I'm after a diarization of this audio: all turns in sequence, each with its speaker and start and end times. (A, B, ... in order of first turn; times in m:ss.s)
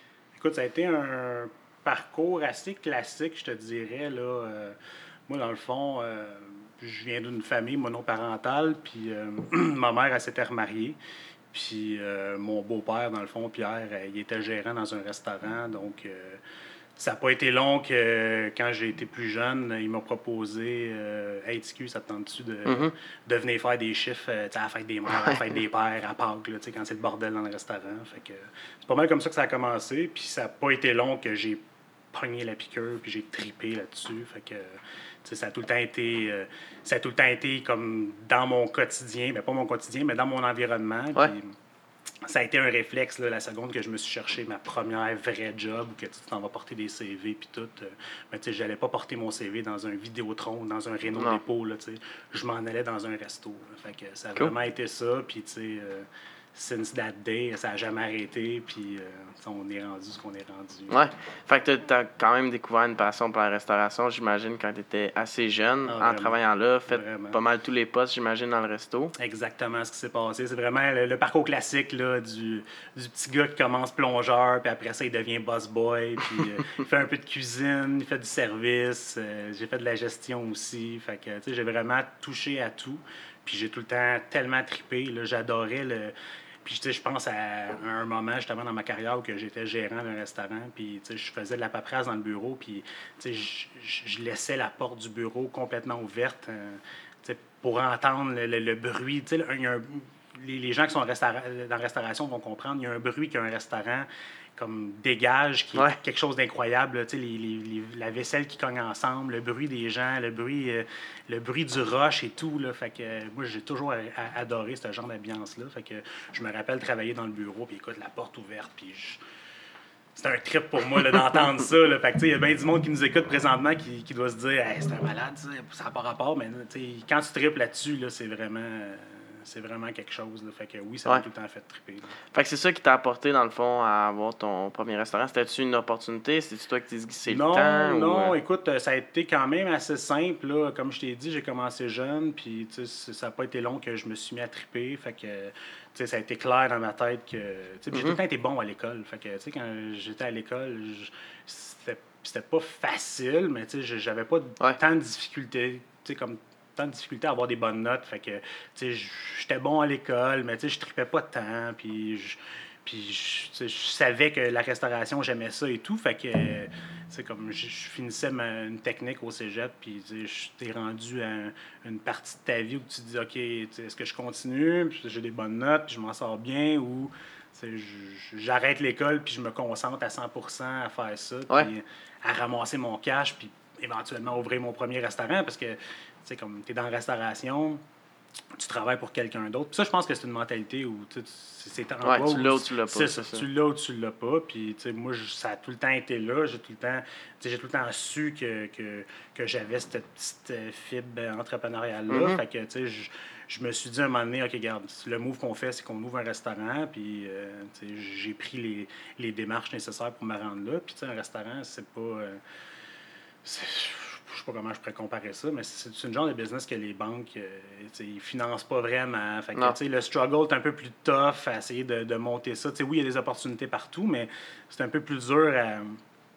0:00.3-0:11.0 A
0:11.5-0:16.4 A
0:17.0-0:41.6 A
0:22.7-0:22.9 B
0:25.1-0:25.4 B
0:42.2-1:01.0 A
0:51.1-0:51.4 B
1:00.9-1:09.1 B
1:05.9-1:06.4 A
1:06.9-1:07.4 A
1:09.2-1:59.2 A
2:00.2-2:12.2 A
2:12.3-2:18.4 B
2:17.3-3:07.8 A
2:27.9-2:28.2 B
3:08.6-3:32.4 A
3:12.0-3:13.5 B
3:22.1-3:22.4 B
3:33.4-3:46.0 A